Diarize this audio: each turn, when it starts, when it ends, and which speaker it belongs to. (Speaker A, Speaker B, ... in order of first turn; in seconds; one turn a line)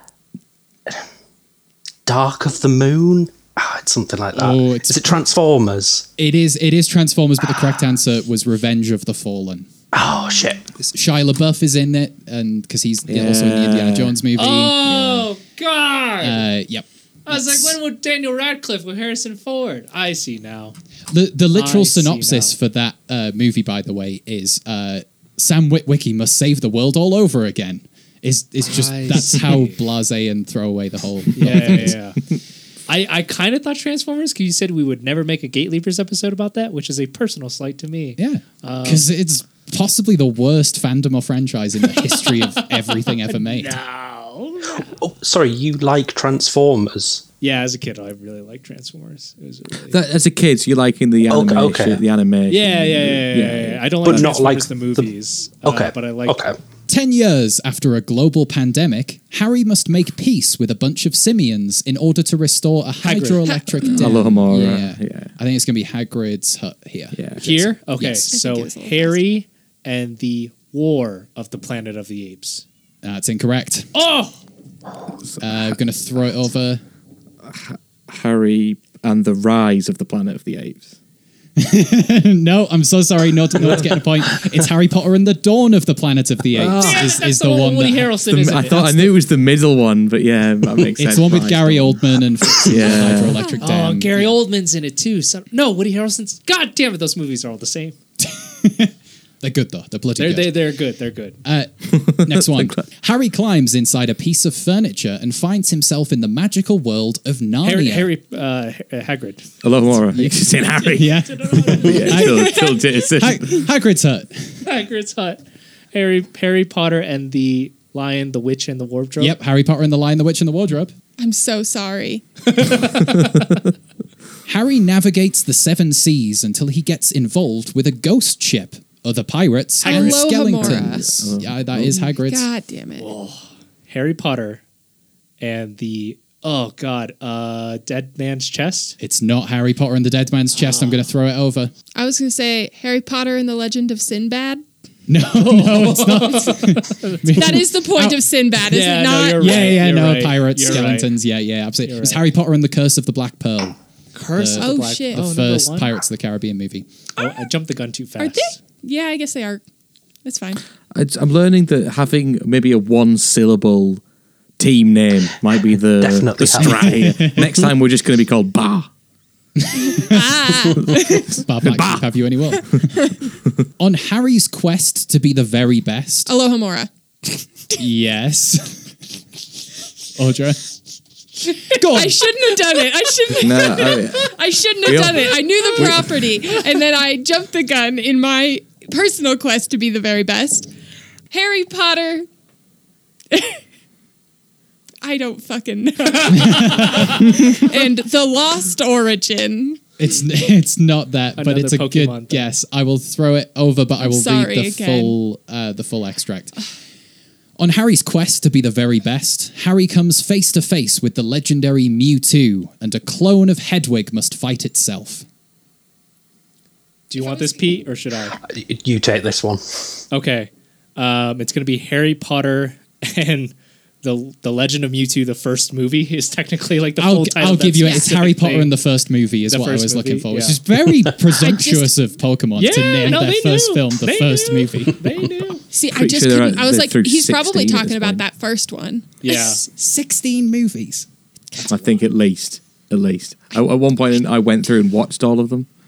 Speaker A: 2.1-6.1
Speaker B: 4.3-5.2
Speaker B: 6.2-9.7
Speaker A: 9.9-10.8
Speaker B: 10.9-14.8
Speaker C: 13.1-14.2
Speaker D: 14.3-16.5
Speaker C: 14.8-15.3
Speaker B: 16.2-17.8
Speaker D: 17.3-20.8
Speaker B: 21.1-31.9
Speaker D: 21.5-22.6
Speaker D: 28.6-29.8
Speaker D: 31.4-32.2
Speaker D: 32.9-39.1
Speaker B: 38.2-43.8
Speaker D: 43.0-44.9
Speaker A: 44.8-47.2
Speaker D: 47.4-50.0
Speaker C: 49.9-54.4
Speaker A: 51.3-52.0
Speaker D: 52.5-56.4
Speaker A: 54.1-55.0
Speaker A: 55.6-56.6
Speaker B: 56.9-68.4
Speaker D: 63.0-63.5
Speaker E: 63.5-64.0
Speaker C: 63.8-65.3
Speaker C: 67.1-67.4
Speaker D: 67.4-72.6
Speaker E: 68.3-69.2
Speaker B: 73.0-73.9
Speaker D: 73.9-74.4
Speaker C: 75.2-75.6
Speaker B: 75.4-76.8
Speaker C: 77.4-81.0
Speaker B: 81.6-88.1
Speaker C: 86.5-87.1
Speaker D: 86.8-89.2
Speaker C: 88.2-92.0
Speaker B: 90.9-94.4
Speaker C: 92.5-93.5
Speaker E: 93.2-93.7
Speaker D: 93.6-98.0
Speaker B: 98.2-100.7
Speaker D: 100.2-101.4
Speaker B: 101.4-108.1
Speaker C: 101.9-102.9
Speaker D: 107.6-109.5
Speaker C: 109.6-113.5
Speaker B: 110.1-114.5
Speaker D: 110.7-112.2
Speaker E: 112.4-113.0
Speaker D: 114.6-115.4
Speaker D: 115.9-119.3
Speaker B: 119.2-120.9
Speaker E: 121.2-122.2
Speaker D: 122.5-123.5
Speaker B: 124.5-132.5
Speaker D: 129.8-130.2
Speaker E: 129.8-131.0
Speaker C: 130.6-132.1
Speaker E: 132.2-133.1
Speaker D: 133.0-134.6
Speaker D: 135.4-139.0
Speaker B: 139.0-141.7
Speaker D: 140.6-141.0
Speaker E: 142.0-144.6
Speaker B: 145.1-148.5
Speaker D: 145.3-147.7
Speaker E: 147.4-149.7
Speaker D: 148.6-151.1
Speaker B: 149.4-153.8
Speaker D: 151.8-152.2
Speaker D: 154.1-155.9
Speaker B: 154.3-156.9
Speaker E: 154.6-155.2
Speaker D: 157.2-158.6
Speaker E: 158.2-159.6
Speaker E: 160.3-160.6
Speaker C: 160.9-164.0
Speaker C: 164.6-168.9
Speaker A: 166.0-167.2
Speaker B: 166.6-167.7
Speaker B: 169.6-173.0
Speaker E: 169.8-171.3
Speaker C: 171.1-172.1
Speaker B: 173.8-176.3
Speaker E: 176.3-177.4
Speaker B: 177.8-178.9
Speaker B: 180.2-180.7
Speaker E: 181.5-190.7
Speaker B: 181.7-182.5
Speaker C: 183.3-186.2
Speaker E: 191.3-192.2
Speaker E: 193.3-193.6
Speaker E: 195.0-199.8
Speaker B: 196.3-197.2
Speaker D: 196.5-197.3
Speaker B: 200.0-206.6
Speaker D: 201.4-202.4
Speaker E: 204.0-205.2
Speaker B: 207.6-215.3
Speaker D: 217.1-218.4
Speaker E: 217.2-217.8
Speaker A: 218.4-220.0
Speaker D: 220.1-228.7
Speaker B: 227.0-235.1
Speaker E: 227.8-228.1
Speaker D: 229.5-230.6
Speaker E: 231.4-231.9
Speaker D: 232.6-235.6
Speaker E: 235.7-239.7
Speaker C: 235.9-238.2
Speaker D: 239.2-239.6
Speaker B: 239.3-241.1
Speaker C: 241.7-245.7